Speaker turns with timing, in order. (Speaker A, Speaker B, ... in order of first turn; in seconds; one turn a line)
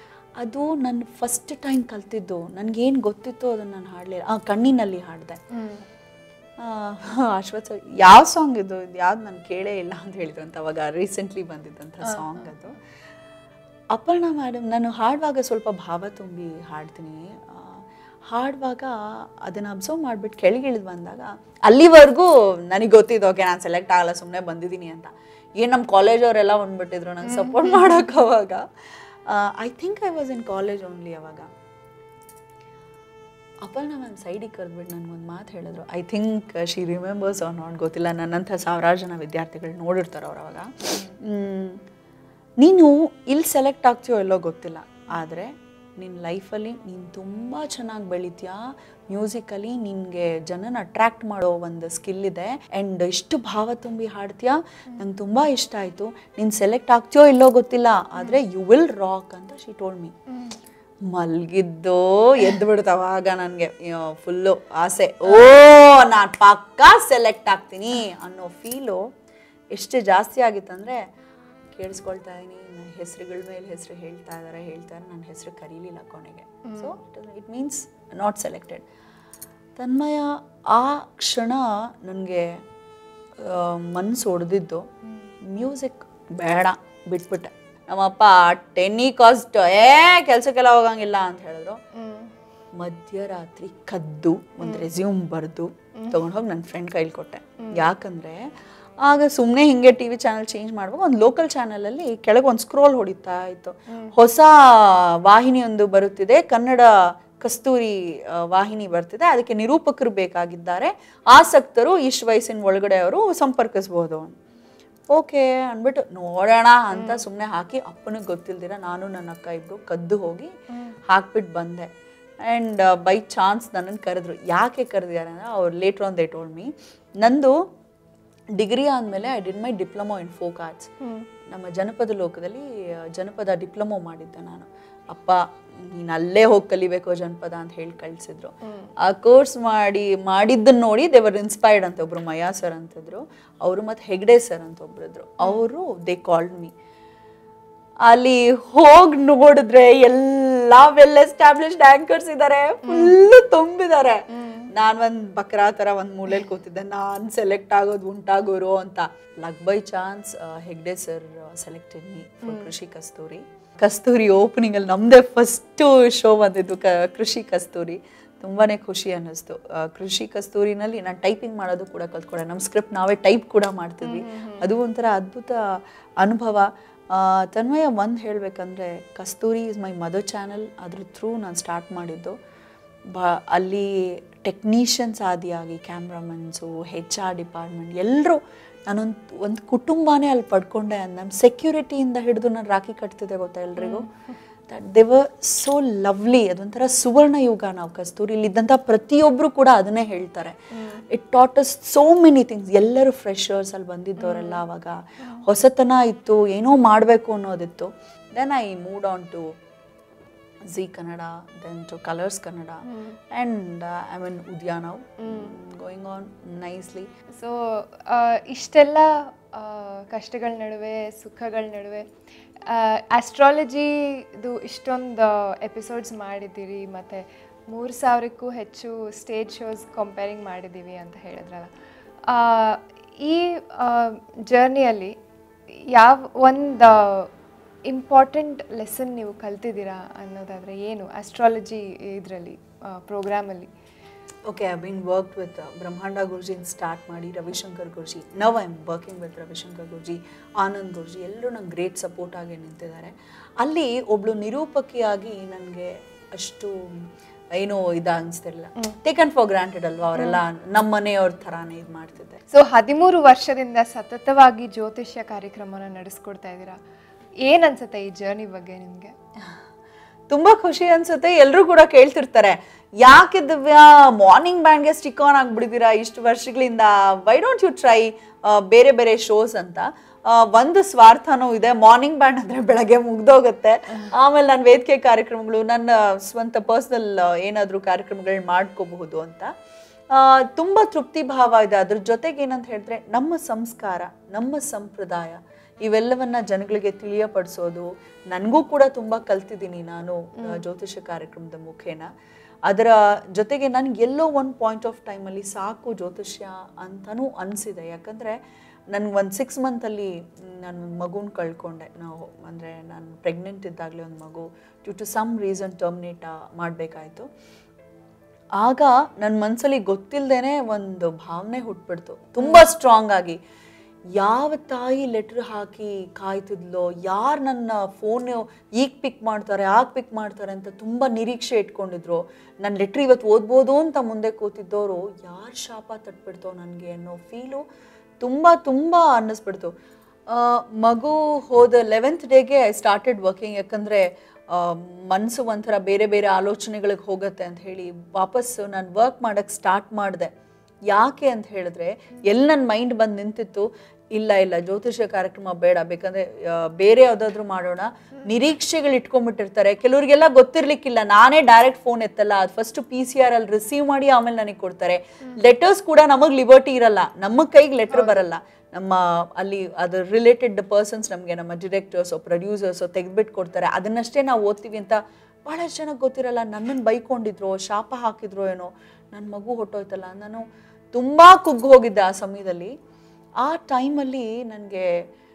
Speaker A: 0.4-5.4
Speaker B: 5.5-5.8
Speaker A: 6.6-12.8
Speaker B: 12.0-12.5
Speaker A: 13.9-28.6
Speaker B: 27.2-28.1
Speaker A: 29.3-31.5
Speaker A: 33.6-41.8
Speaker A: 42.6-60.1
Speaker B: 60.3-60.5
Speaker A: 61.1-69.1
Speaker A: 69.7-71.0
Speaker A: 71.7-78.8
Speaker B: 76.7-76.9
Speaker A: 79.8-82.6
Speaker A: 83.4-84.8
Speaker A: 85.4-91.8
Speaker B: 91.9-92.3
Speaker A: 92.8-98.5
Speaker A: 99.0-114.3
Speaker A: 115.1-120.5
Speaker B: 116.9-117.2
Speaker A: 121.1-121.9
Speaker A: 122.4-126.7
Speaker A: 127.2-127.5
Speaker A: 128.6-130.9
Speaker B: 131.0-131.3
Speaker A: 131.5-146.7
Speaker A: 148.0-182.3
Speaker B: 152.8-153.2
Speaker B: 154.3-154.7
Speaker B: 162.4-162.7
Speaker B: 174.0-174.7
Speaker A: 183.1-194.1
Speaker B: 193.8-194.1
Speaker A: 194.7-209.4
Speaker B: 200.8-201.0
Speaker B: 204.2-204.6
Speaker A: 210.7-217.1
Speaker B: 212.9-213.2
Speaker B: 215.2-215.5
Speaker B: 217.3-222.1
Speaker B: 222.7-231.7
Speaker B: 232.3-235.1
Speaker B: 235.9-237.3
Speaker B: 237.9-243.7
Speaker A: 244.5-262.4
Speaker B: 260.1-260.4
Speaker B: 262.5-266.8
Speaker B: 267.4-269.1
Speaker A: 270.3-289.5
Speaker A: 290.1-302.1
Speaker B: 300.4-300.6
Speaker A: 302.7-308.4
Speaker A: 308.9-317.3
Speaker A: 318.6-323.4
Speaker B: 322.4-322.7
Speaker A: 324.2-337.6
Speaker A: 338.2-339.7
Speaker A: 340.3-350.3
Speaker A: 350.9-382.7
Speaker B: 367.9-368.2
Speaker A: 383.4-384.9